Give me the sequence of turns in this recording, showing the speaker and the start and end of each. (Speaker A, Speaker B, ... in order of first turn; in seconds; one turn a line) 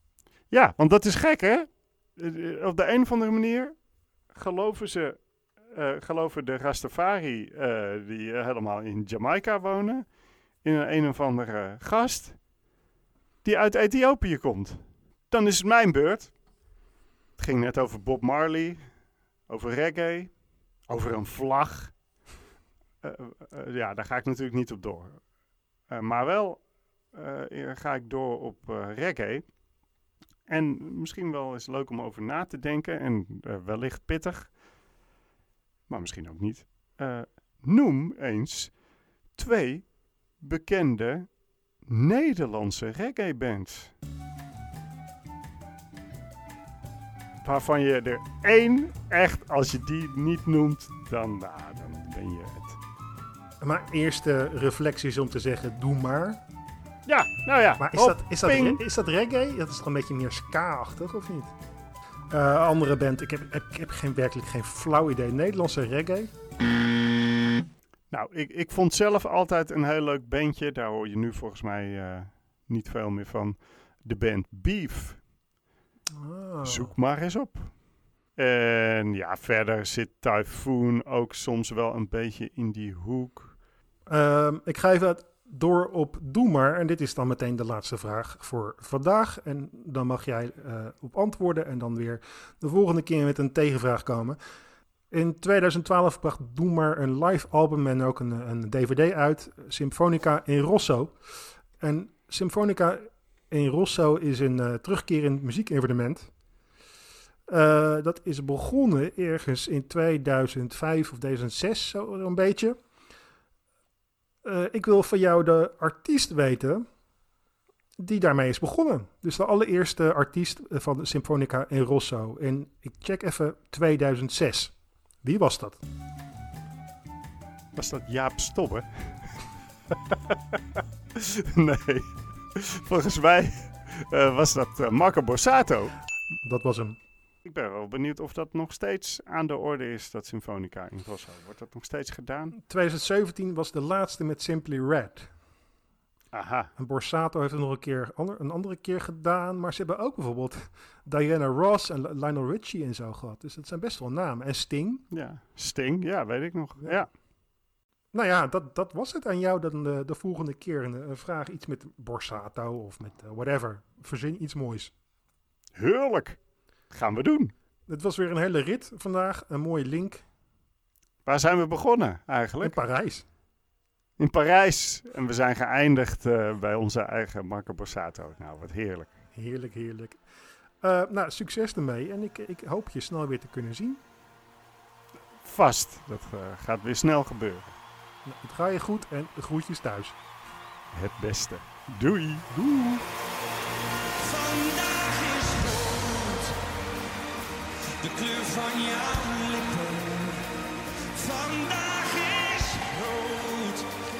Speaker A: 0.5-3.7
Speaker A: 4.3-5.2
Speaker A: 5.7-10.1
Speaker A: 10.6-12.4
Speaker A: 13.4-16.3
Speaker A: 17.4-18.9
Speaker A: 19.5-20.3
Speaker A: 20.9-21.9
Speaker A: 23.0-25.2
Speaker A: 25.9-29.4
Speaker A: 30.5-34.5
Speaker A: 35.9-38.7
Speaker A: 39.4-39.9
Speaker A: 40.4-41.3
Speaker A: 41.9-43.9
Speaker A: 47.4-52.8
Speaker B: 53.6-56.4
Speaker A: 57.0-58.8
Speaker B: 57.8-61.5
Speaker B: 62.3-66.3
Speaker A: 68.1-75.2
Speaker B: 76.2-76.9
Speaker A: 76.6-77.7
Speaker A: 78.4-83.5
Speaker B: 84.1-94.4
Speaker B: 95.1-101.1
Speaker B: 101.8-106.3
Speaker B: 107.5-112.8
Speaker B: 114.4-116.8
Speaker B: 118.0-125.8
Speaker A: 127.8-129.2
Speaker A: 130.1-130.5
Speaker A: 131.1-135.9
Speaker B: 136.4-136.9
Speaker A: 137.4-142.6
Speaker B: 142.6-145.3
Speaker A: 146.3-146.7
Speaker B: 146.8-155.0
Speaker A: 155.1-157.1
Speaker B: 158.1-164.9
Speaker A: 165.8-166.4
Speaker A: 166.9-167.5
Speaker B: 167.9-170.2
Speaker A: 171.2-172.8
Speaker B: 172.6-173.2
Speaker A: 174.2-179.1
Speaker B: 179.3-180.2
Speaker B: 180.8-184.0
Speaker A: 185.4-187.7
Speaker B: 188.2-190.2
Speaker A: 190.9-193.0
Speaker C: 194.2-196.6
Speaker C: 198.0-203.9